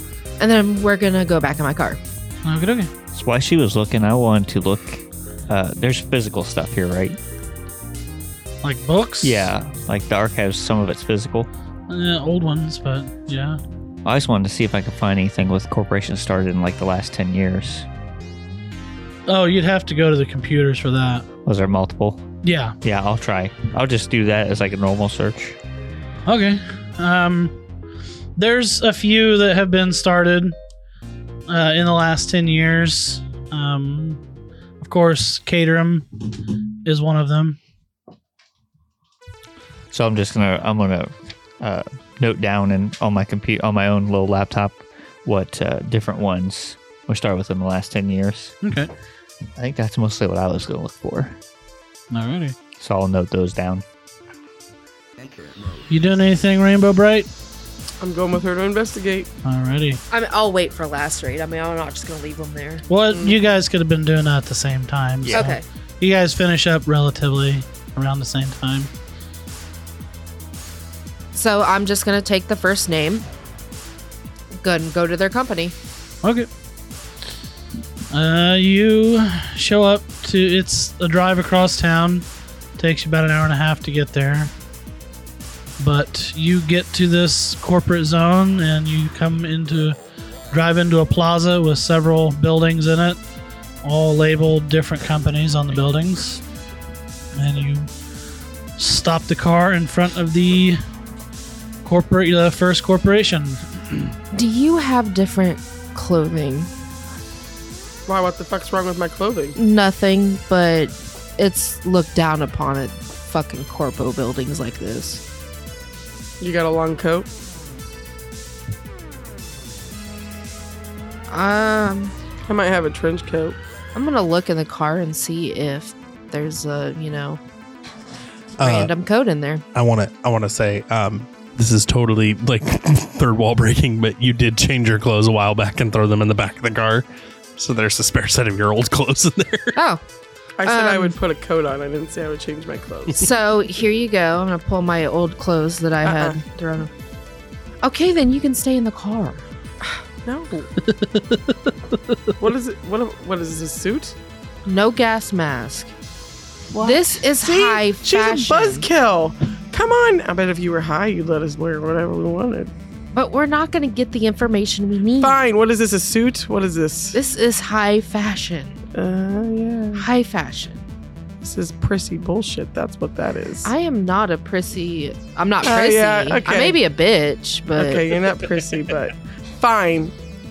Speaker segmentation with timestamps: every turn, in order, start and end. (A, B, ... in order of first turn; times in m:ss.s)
0:00.4-0:02.0 A
0:02.4-0:02.9 B
0:03.1-0:07.2 C
0:08.6-0:09.5 B
0:09.2-0:11.5 C
0:11.9-0:13.6 B
0:14.0-0:17.9 C
0:19.3-0:21.2 B
0:21.5-0:22.3 C
0:22.4-0:22.8 B
0:22.8-0:25.6 C
0:26.3-0:27.6 B
0:28.4-0:30.6 B
0:31.5-0:34.2 B
0:34.8-0:36.1 B
0:36.8-0:37.6 B
0:39.9-0:48.5 C
0:48.6-0:48.9 B
0:49.6-0:51.4 C
0:52.1-0:52.6 B
0:52.8-0:53.8 C
0:55.9-0:57.3 B
0:58.0-0:59.3 D
0:59.4-1:00.0 B
1:00.1-1:02.9 A
1:02.9-1:08.9 B
1:03.1-1:03.4 D
1:05.2-1:05.6 C
1:05.3-1:05.6 A
1:11.3-1:13.3 A
1:14.6-1:15.8 A
1:16.2-1:16.5 B
1:18.1-1:22.2 B
1:22.8-1:24.5 B
1:25.8-1:30.0 B
1:30.5-1:33.2 B
1:33.8-1:36.4 B
1:37.3-1:37.9 B
1:38.8-1:40.8 B
1:41.8-1:43.6 B
1:44.3-1:46.7 A
1:48.1-1:49.6 D
1:49.6-1:55.2 A
1:56.4-1:57.3 D
2:01.3-2:02.2 A
2:02.5-2:03.6 D
2:04.0-2:07.4 A
2:08.6-2:08.9 E
2:08.6-2:09.6 A
2:09.8-2:17.1 E
2:17.6-2:19.8 E
2:19.8-2:20.0 A
2:20.6-2:23.3 D
2:20.6-2:21.2 A
2:23.1-2:26.9 A
2:26.0-2:26.4 D
2:27.8-2:29.4 A
2:30.2-2:30.7 D
2:30.8-2:32.2 B
2:32.4-2:34.2 D
2:34.7-2:35.9 A
2:36.7-2:42.7 D
2:36.8-2:38.9 A
2:43.1-2:45.4 A
2:45.2-2:47.2 D
2:47.2-2:48.8 A
2:48.9-2:50.1 D
2:50.0-2:50.8 A
2:51.4-2:53.7 D
2:53.6-2:58.2 A
2:55.6-2:56.8 D
2:57.8-3:00.1 D